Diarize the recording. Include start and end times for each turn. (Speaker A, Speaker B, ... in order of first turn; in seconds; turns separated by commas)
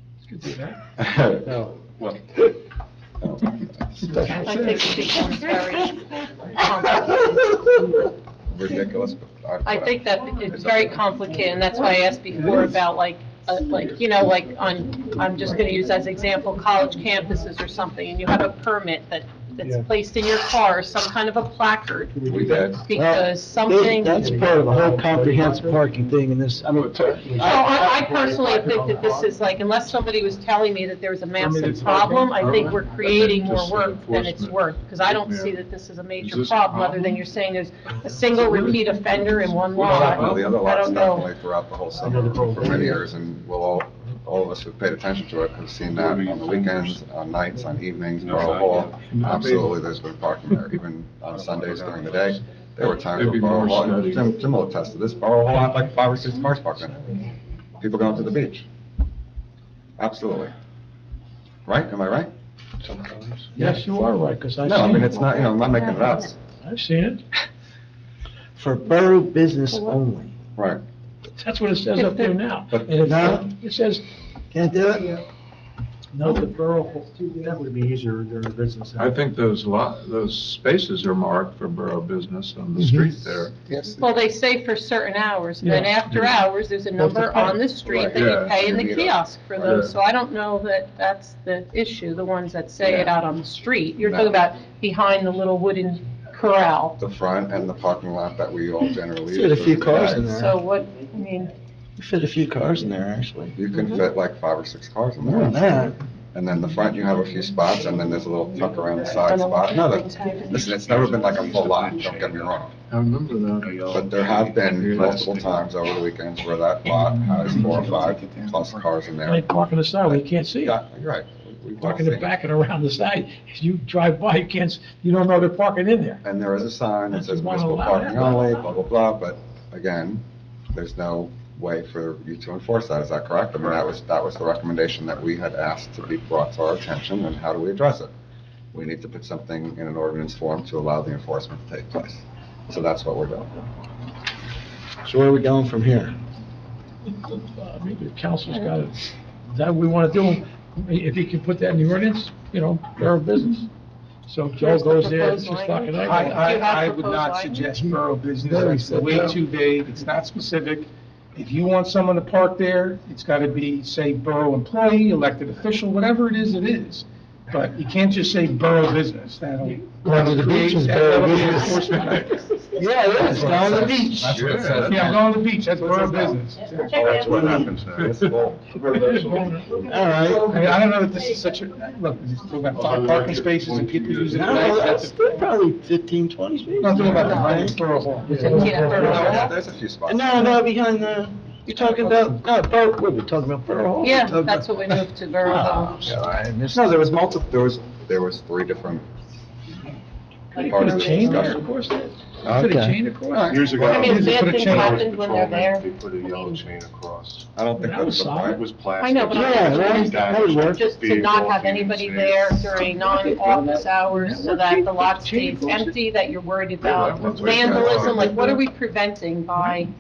Speaker A: 0.3-0.8, Speaker B: 1.0-1.6, Speaker C: 1.5-1.7, Speaker D: 2.0-2.3, Speaker B: 3.2-4.3, Speaker E: 4.1-4.9, Speaker F: 4.3-7.8, Speaker B: 8.5-10.0, Speaker F: 9.7-22.2, Speaker B: 10.6-10.9, Speaker G: 22.2-22.7, Speaker B: 22.3-22.8, Speaker F: 22.8-24.6, Speaker C: 22.9-27.1, Speaker G: 24.2-25.9, Speaker H: 26.7-27.7, Speaker G: 27.2-29.1, Speaker F: 27.4-41.3, Speaker E: 31.4-32.4, Speaker H: 32.4-35.6, Speaker H: 36.2-37.2, Speaker H: 39.8-40.5, Speaker B: 39.8-57.1, Speaker G: 42.0-42.9, Speaker D: 45.8-47.0, Speaker D: 48.2-49.6, Speaker H: 49.1-49.7, Speaker D: 51.4-52.1, Speaker H: 53.0-54.4, Speaker B: 57.8-58.7, Speaker B: 60.0-60.5, Speaker B: 61.7-62.3, Speaker H: 62.8-63.5, Speaker A: 63.5-65.3, Speaker B: 64.6-66.3, Speaker F: 65.6-66.3, Speaker A: 66.6-67.2, Speaker C: 68.6-70.4, Speaker F: 69.7-70.0, Speaker B: 70.6-70.8, Speaker A: 71.4-74.0, Speaker F: 72.0-72.3, Speaker C: 73.0-73.5, Speaker C: 74.5-75.2, Speaker A: 76.1-76.6, Speaker G: 76.4-79.1, Speaker H: 79.0-83.6, Speaker C: 82.8-83.1, Speaker B: 83.7-84.0, Speaker F: 84.0-97.0, Speaker A: 85.6-86.0, Speaker H: 86.1-86.4, Speaker B: 87.3-89.9, Speaker H: 88.1-88.7, Speaker H: 89.7-89.9, Speaker B: 92.8-93.1, Speaker B: 94.0-94.4, Speaker B: 97.0-100.3, Speaker C: 99.3-100.6, Speaker F: 100.3-101.5, Speaker C: 102.0-103.6, Speaker B: 103.5-105.7, Speaker C: 105.2-106.0, Speaker B: 106.3-112.7, Speaker F: 109.2-110.7, Speaker D: 110.4-112.6, Speaker H: 112.9-113.7, Speaker D: 113.5-115.7, Speaker B: 113.8-119.5, Speaker H: 114.7-115.2, Speaker E: 116.8-118.8, Speaker A: 119.2-120.8, Speaker B: 120.0-122.4, Speaker A: 121.8-126.2, Speaker B: 126.2-138.1, Speaker A: 127.1-128.7, Speaker B: 138.7-143.7, Speaker C: 145.1-146.2, Speaker A: 147.3-153.7, Speaker A: 154.3-156.3, Speaker F: 154.6-157.7, Speaker E: 156.0-172.7, Speaker C: 157.9-159.4, Speaker A: 158.8-159.3, Speaker C: 170.0-172.2, Speaker A: 171.8-172.3, Speaker C: 172.8-174.7, Speaker B: 173.2-178.7, Speaker H: 174.3-175.2, Speaker E: 174.8-176.9, Speaker D: 176.8-178.2, Speaker C: 177.0-177.7, Speaker H: 177.9-178.3, Speaker A: 178.7-179.9, Speaker D: 178.7-180.9, Speaker C: 179.9-180.6, Speaker E: 180.3-185.2, Speaker D: 182.7-185.1, Speaker C: 184.3-189.5, Speaker E: 186.8-189.4, Speaker D: 186.9-187.2, Speaker F: 187.0-187.7, Speaker F: 188.3-189.5, Speaker B: 188.9-190.6, Speaker C: 190.1-197.1, Speaker B: 191.9-192.2, Speaker F: 194.0-196.1, Speaker B: 196.7-199.1, Speaker A: 200.5-203.9, Speaker B: 200.6-201.7, Speaker F: 200.7-201.6, Speaker B: 202.4-202.8, Speaker C: 202.5-203.0, Speaker B: 203.3-203.8, Speaker D: 203.4-207.5, Speaker F: 203.8-206.6, Speaker E: 203.8-205.0, Speaker B: 207.6-208.6, Speaker A: 207.8-208.6, Speaker D: 208.3-213.1, Speaker F: 209.0-219.9, Speaker C: 209.3-210.9, Speaker A: 213.1-216.0, Speaker H: 216.8-218.6, Speaker B: 217.3-218.3